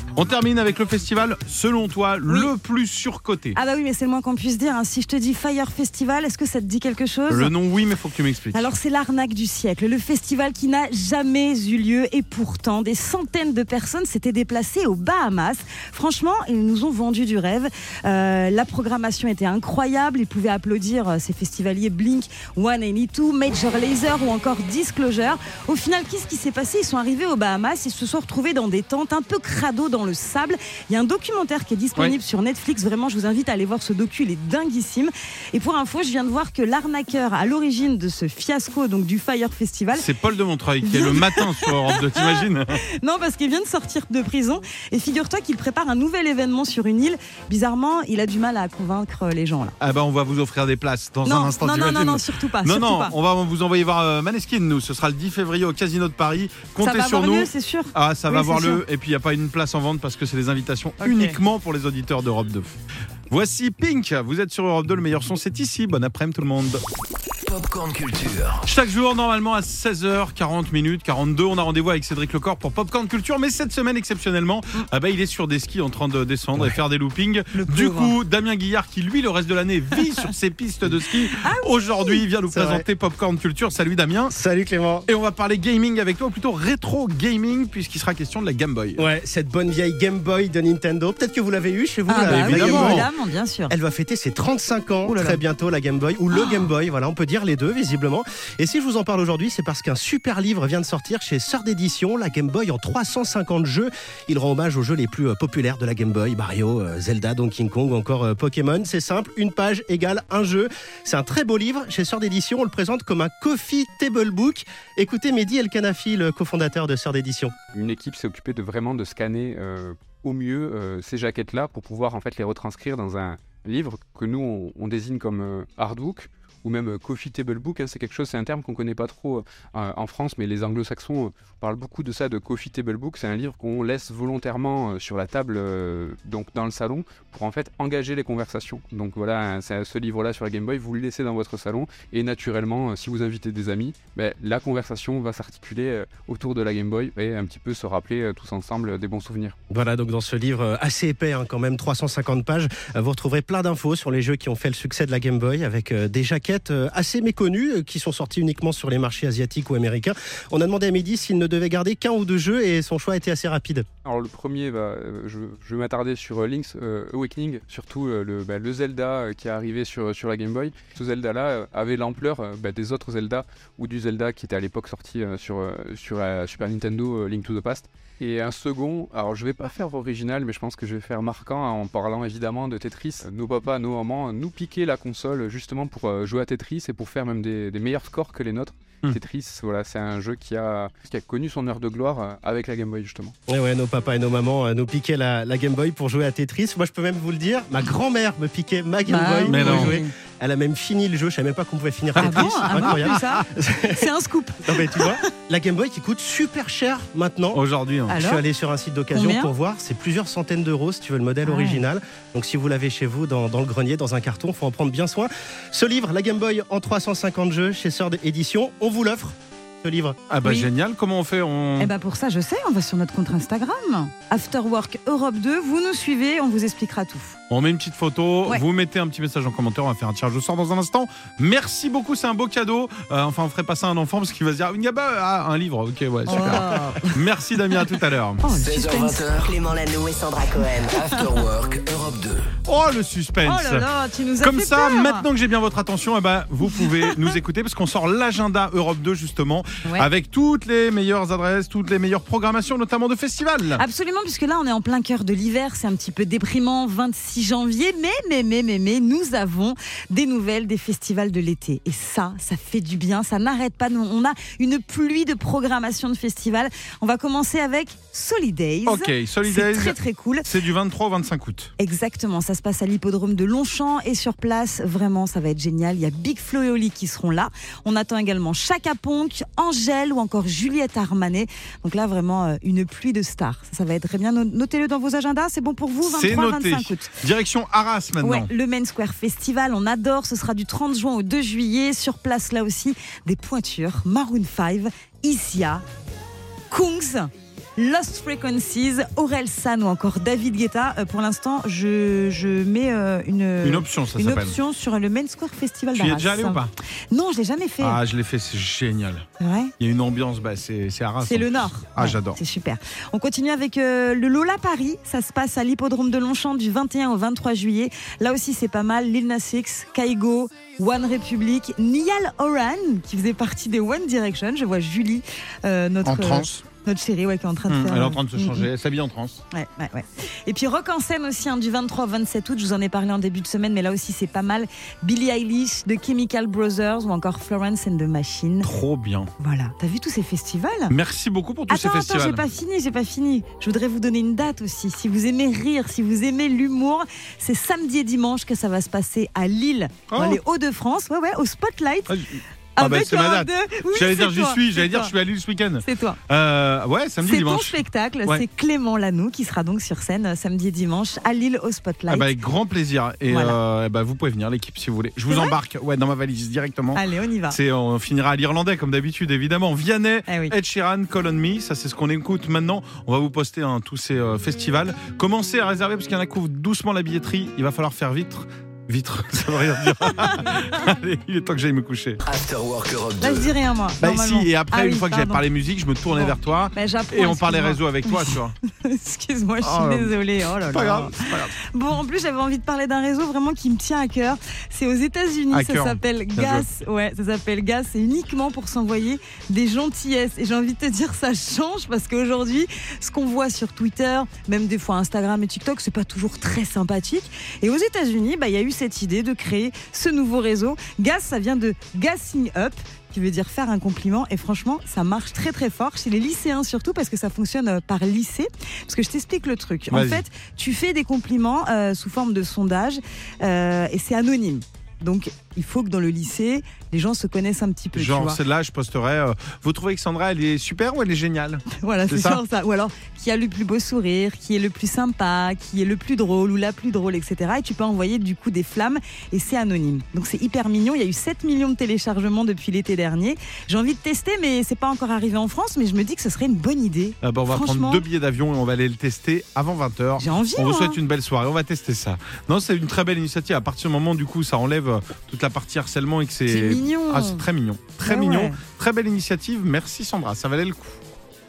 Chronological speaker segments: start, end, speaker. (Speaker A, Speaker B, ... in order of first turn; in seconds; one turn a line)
Speaker A: 0.2-3.6
Speaker B: 3.5-7.5
Speaker A: 7.3-8.7
Speaker B: 8.5-40.1
Speaker A: 40.0-42.8
Speaker B: 40.8-49.8
Speaker A: 49.8-62.8
Speaker B: 51.2-53.1
Speaker B: 56.8-58.8
Speaker B: 61.0-61.4
Speaker A: 63.3-66.8
Speaker C: 67.5-68.7
Speaker A: 68.7-84.3
Speaker B: 77.5-78.2
Speaker B: 81.4-82.2
Speaker D: 82.5-82.9
Speaker D: 84.3-85.1
Speaker A: 85.1-89.0
Speaker D: 89.0-93.1
Speaker B: 92.1-93.8
Speaker A: 92.2-93.1
Speaker D: 93.7-117.5
Speaker B: 95.0-95.4
Speaker B: 96.3-96.7
Speaker E: 117.7-149.6
Speaker D: 149.7-163.9
Speaker E: 164.0-193.3
Speaker D: 193.5-204.1
Speaker B: 199.1-200.1
Speaker A: 199.4-200.0
Speaker B: 202.2-205.2
Speaker A: 202.2-203.0
Speaker D: 204.7-207.6
Speaker A: 207.5-208.2
Speaker B: 208.1-208.4
Speaker D: 208.2-220.2
Speaker B: 209.1-209.5
Speaker B: 211.4-211.8
Speaker A: 220.3-221.9
Speaker B: 220.4-220.7
Speaker B: 221.8-227.4
Speaker A: 227.5-238.5
Speaker B: 236.3-239.2
Speaker C: 238.5-239.6
Speaker F: 239.2-241.2
Speaker C: 240.9-242.5
Speaker A: 242.7-243.9
Speaker B: 243.4-245.3
Speaker A: 244.4-253.8
Speaker B: 246.7-247.3
Speaker B: 253.8-270.5
Speaker A: 268.9-271.7
Speaker B: 271.8-287.1
Speaker A: 286.0-288.5
Speaker B: 288.2-295.8
Speaker B: 296.7-308.0
Speaker A: 303.6-304.6
Speaker A: 305.9-306.7
Speaker A: 307.8-309.2
Speaker B: 309.4-309.7
Speaker A: 309.8-312.4
Speaker B: 311.2-328.7
Speaker A: 326.1-326.6
Speaker A: 327.7-329.4
Speaker B: 329.5-338.7
Speaker A: 338.6-339.3
Speaker B: 339.4-340.9
Speaker A: 340.9-342.4
Speaker B: 341.7-352.2
Speaker A: 350.1-350.4
Speaker A: 352.1-358.4
Speaker B: 352.8-355.1
Speaker B: 355.8-356.2
Speaker B: 357.2-362.3
Speaker A: 362.1-382.2
Speaker B: 363.3-363.6
Speaker B: 365.3-365.6
Speaker B: 366.9-367.6
Speaker B: 370.3-370.6
Speaker C: 382.3-383.5
Speaker B: 383.2-385.5
Speaker A: 384.0-388.5
Speaker B: 386.1-428.4
Speaker A: 389.6-390.1
Speaker A: 390.7-391.6
Speaker A: 395.5-396.7
Speaker A: 419.9-420.2
Speaker A: 427.9-432.4
Speaker B: 431.7-448.1
Speaker A: 447.2-461.0
Speaker B: 450.2-451.0
Speaker B: 456.5-457.4
Speaker B: 458.1-458.6